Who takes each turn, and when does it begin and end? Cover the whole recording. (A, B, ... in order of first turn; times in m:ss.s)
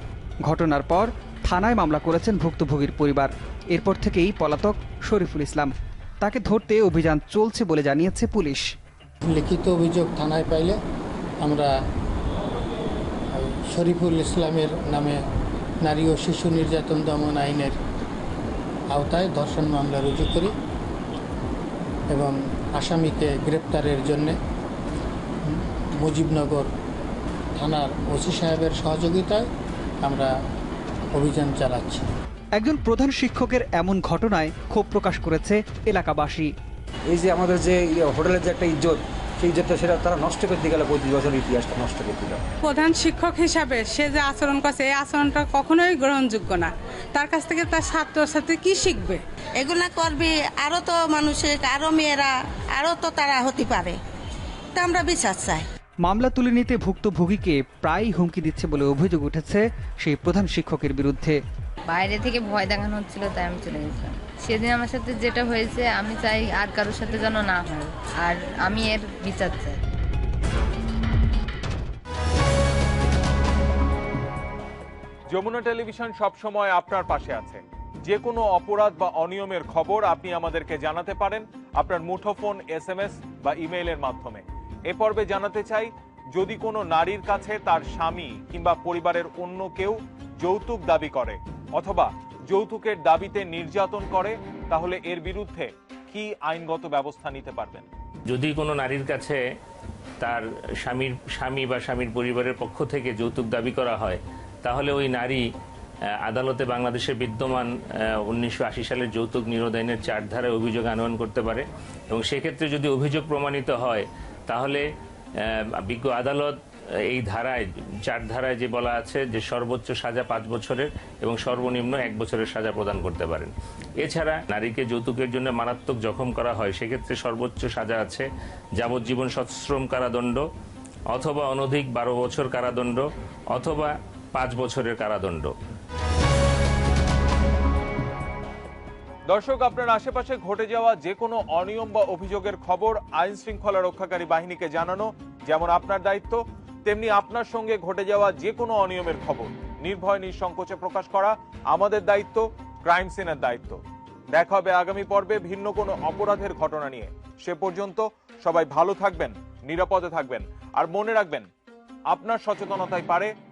0:00.4-0:08.6 A
0:09.2-0:10.8 B
0:11.4-0:11.7 B
0:13.3-0:15.2 B
0:15.8-0:17.8 B
0:18.9-0:20.5 B
0:22.1-0:24.4 B
0:25.4-0:26.7 B
0:27.6-0:29.5 B
0:30.0-0:30.3 B
0:31.1-0:32.0 B
0:32.6-0:36.5 A
0:37.1-0:42.4 C
0:42.6-0:49.2 D
0:49.6-0:54.0 E
0:54.8-0:55.7 E
0:56.0-1:01.4 A
1:01.9-1:09.8 F
1:15.3-1:37.9 G
1:38.3-1:39.4 H
1:40.2-1:45.4 H
1:46.3-1:47.7 H
1:48.2-1:54.8 H
1:55.4-1:56.6 H
1:57.1-2:08.3 H
2:08.8-2:10.4 H
2:11.1-2:15.5 H
2:19.3-2:33.8 G
2:34.3-2:41.5 G
2:42.1-2:43.3 G